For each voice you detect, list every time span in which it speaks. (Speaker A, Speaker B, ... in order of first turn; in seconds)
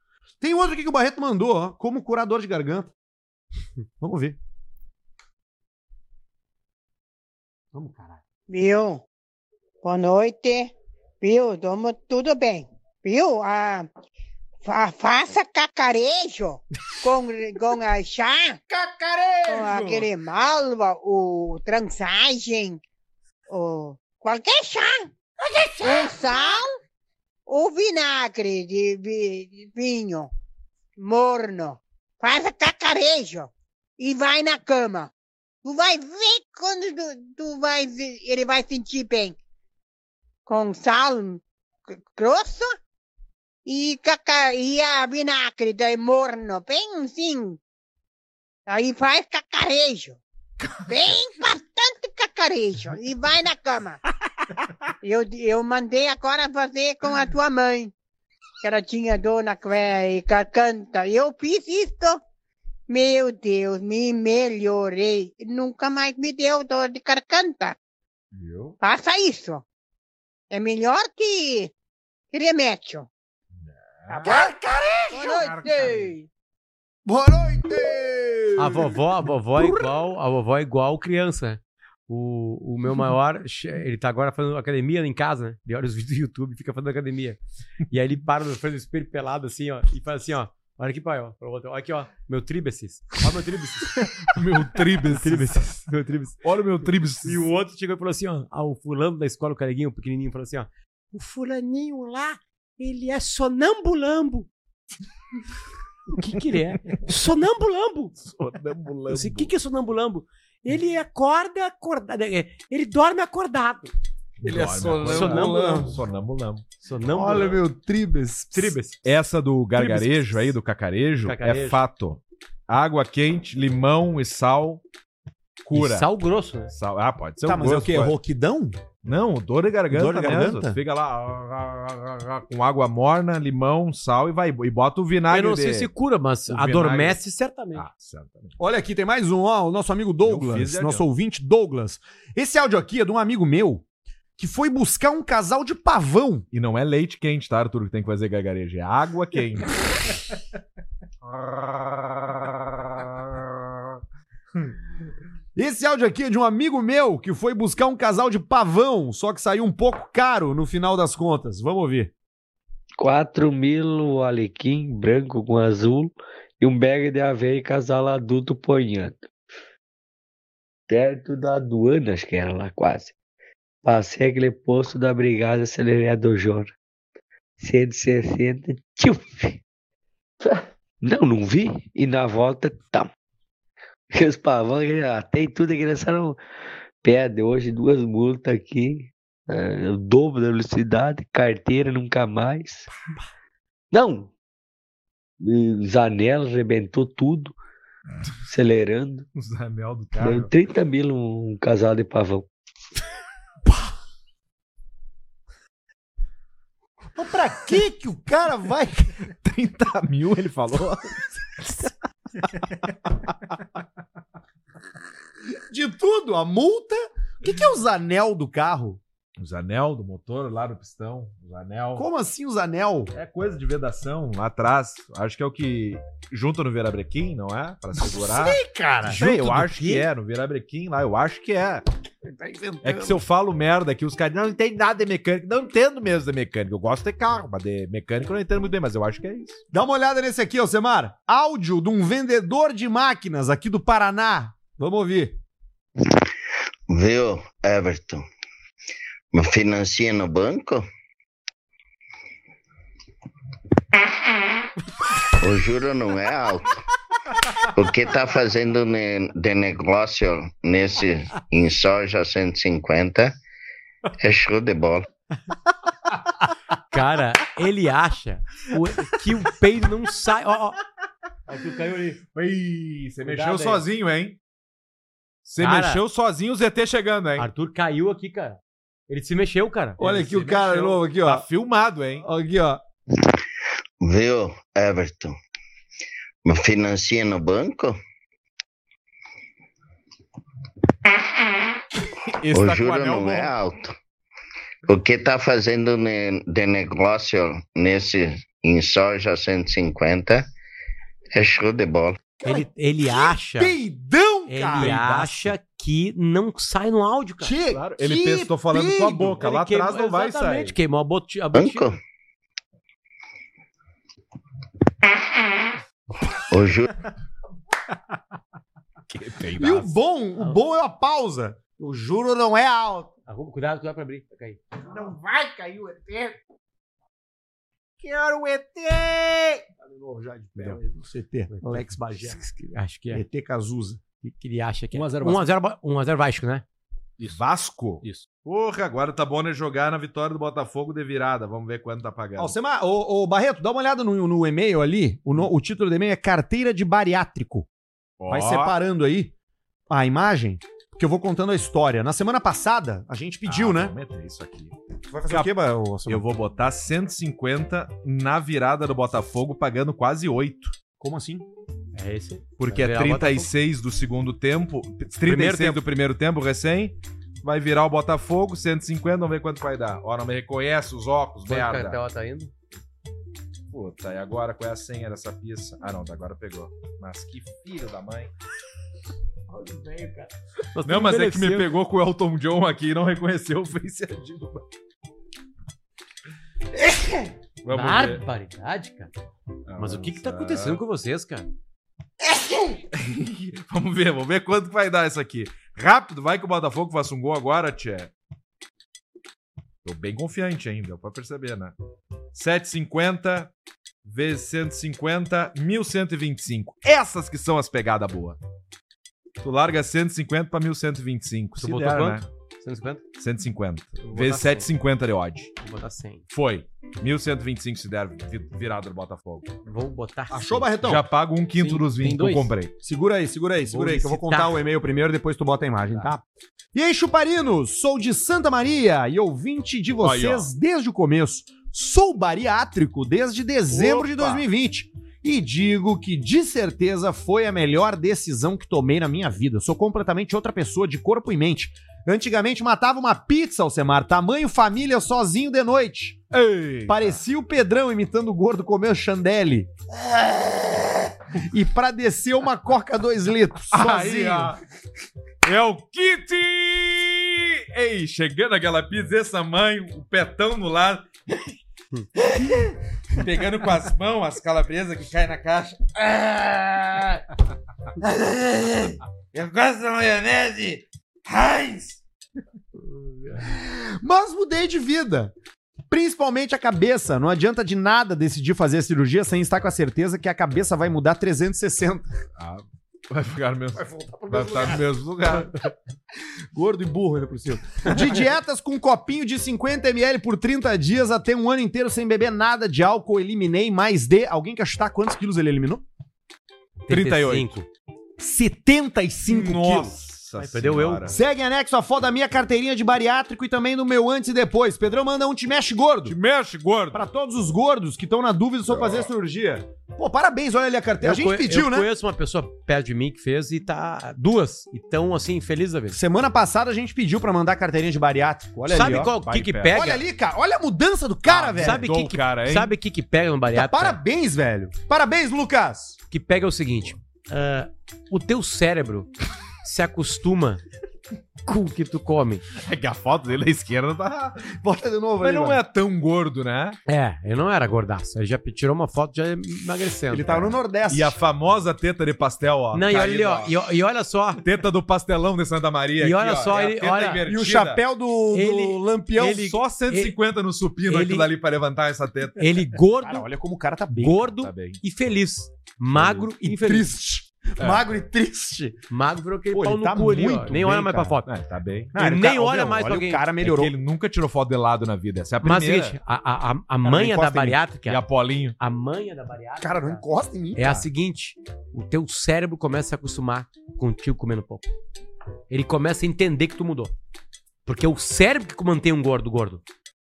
Speaker A: 0.4-2.9, 4.0-4.4, 7.7-8.2, 18.7-20.1, 25.5-26.3, 74.2-75.5, 77.1-79.0, 79.6-79.9, 114.4-115.9, 117.1-118.8, 127.4-128.8, 129.9-130.8, 138.6-143.8, 144.4-146.5, 155.6-162.1, 207.2-209.2, 215.7-219.0, 222.0-223.1, 228.1-229.2, 232.2-233.2, 239.7-245.4, 280.0-281.4, 282.2-282.8, 302.4-305.1, 307.4-309.4, 319.6-323.1, 324.8-326.4, 329.8-332.4, 333.1-334.0, 342.4-347.7, 348.3-349.3, 349.9-353.9, 355.1-356.2, 361.0-361.5, 420.3-421.0, 422.8-446.2, 446.9-449.7, 451.4-454.6, 473.4-475.3, 475.9-482.1, 483.8-484.8, 486.5-495.9, 498.2-499.9, 501.1-506.2, 506.9-511.9, 515.9-519.1, 519.7-521.8, 523.5-526.0, 534.6-535.6, 540.1-541.2, 547.3-549.4, 553.0-554.2, 556.1-558.8, 559.5-561.2, 561.9-563.7, 566.8-567.6, 569.6-570.9
Speaker B: 8.5-9.0, 9.8-13.9, 14.6-18.6, 19.5-22.8, 23.5-25.1, 25.8-26.7, 27.5-30.3, 31.0-35.1, 35.6-39.4, 40.5-42.7, 43.7-47.6, 48.7-50.2, 50.8-54.0, 55.0-57.9, 58.6-62.2, 62.9-67.8, 68.8-69.6, 70.5-71.7, 72.3-73.1, 74.1-74.5, 75.1-76.3
Speaker C: 68.3-68.8, 73.6-74.3, 75.3-76.1, 94.3-95.8, 96.4-97.5, 108.3-109.5, 114.4-116.7, 119.0-124.8, 125.6-126.1, 126.7-128.2, 129.0-135.9, 136.5-137.2, 137.7-138.6, 140.2-141.1, 146.5-149.7, 199.3-200.5, 209.3-211.9, 219.4-222.1, 223.1-231.8, 232.8-239.6, 272.3-274.4, 275.4-277.5, 280.0-282.2, 292.3-293.5, 304.8-305.5, 307.7-310.8, 319.1-320.0, 328.0-329.6, 337.2-342.6, 348.2-348.8, 353.4-354.8, 355.3-360.8, 362.6-372.0, 373.7-378.3, 380.8-384.6, 387.6-388.2, 389.7-390.8, 392.9-398.1, 399.8-401.8, 402.3-403.5, 404.1-408.4, 409.4-412.3, 413.2-415.5, 416.3-419.5, 420.8-422.7, 430.0-430.5, 433.8-434.3, 446.3-447.2, 453.7-454.6, 455.4-461.1, 462.2-467.2, 468.0-472.0, 482.4-485.7, 496.9-497.5, 499.3-501.2, 506.1-507.0, 508.7-509.1, 518.7-519.8, 521.3-522.7, 532.5-534.5, 535.2-536.8, 540.9-543.6, 544.4-547.8, 549.2-552.6, 554.4-554.8, 557.6-557.9, 561.2-562.0, 563.4-566.0, 567.9-568.6
Speaker D: 78.6-87.4, 87.9-94.1, 95.0-96.4, 97.2-104.5, 106.1-108.1, 109.1-113.9, 114.9-115.8, 116.8-117.6, 118.5-119.0, 119.8-120.5, 121.2-121.8, 125.7-126.7, 135.3-137.9, 229.1-230.1, 266.9-270.8, 271.5-272.2, 273.2-273.8, 275.6-276.0, 277.4-280.1, 302.4-303.7, 304.5-307.5, 309.4-312.0, 323.3-324.6, 331.5-333.2, 334.2-336.6, 361.9-363.5, 365.2-365.8, 371.5-372.5, 379.5-381.7, 387.7-389.1, 389.8-391.5, 411.6-413.0, 414.0-414.7, 415.6-416.3, 419.6-420.7, 421.6-422.5, 423.7-424.6, 433.7-434.4, 472.8-473.4, 496.9-497.7, 500.4-501.1, 511.0-516.0, 518.7-520.0, 521.3-524.0, 526.1-529.1, 529.6-530.6, 531.5-532.4, 536.9-540.5, 542.7-544.4, 546.0-547.3, 548.3-550.2, 550.9-551.3, 552.4-553.3, 554.0-556.9, 558.9-561.3, 562.0-563.3, 565.4-568.0, 568.6-574.7, 575.5-576.9, 577.7-579.6
Speaker E: 163.0-169.3, 170.9-173.2, 173.8-176.7, 177.6-179.6, 180.4-183.1, 184.1-192.9, 193.9-194.3, 195.4-197.6, 198.5-199.3, 200.2-202.5
Speaker F: 246.9-248.2, 249.3-250.9, 255.4-256.8, 257.8-263.3, 264.2-265.1, 284.0-285.3, 286.5-288.0, 292.5-293.9, 294.9-300.4, 301.4-302.2, 311.5-312.0, 316.5-316.9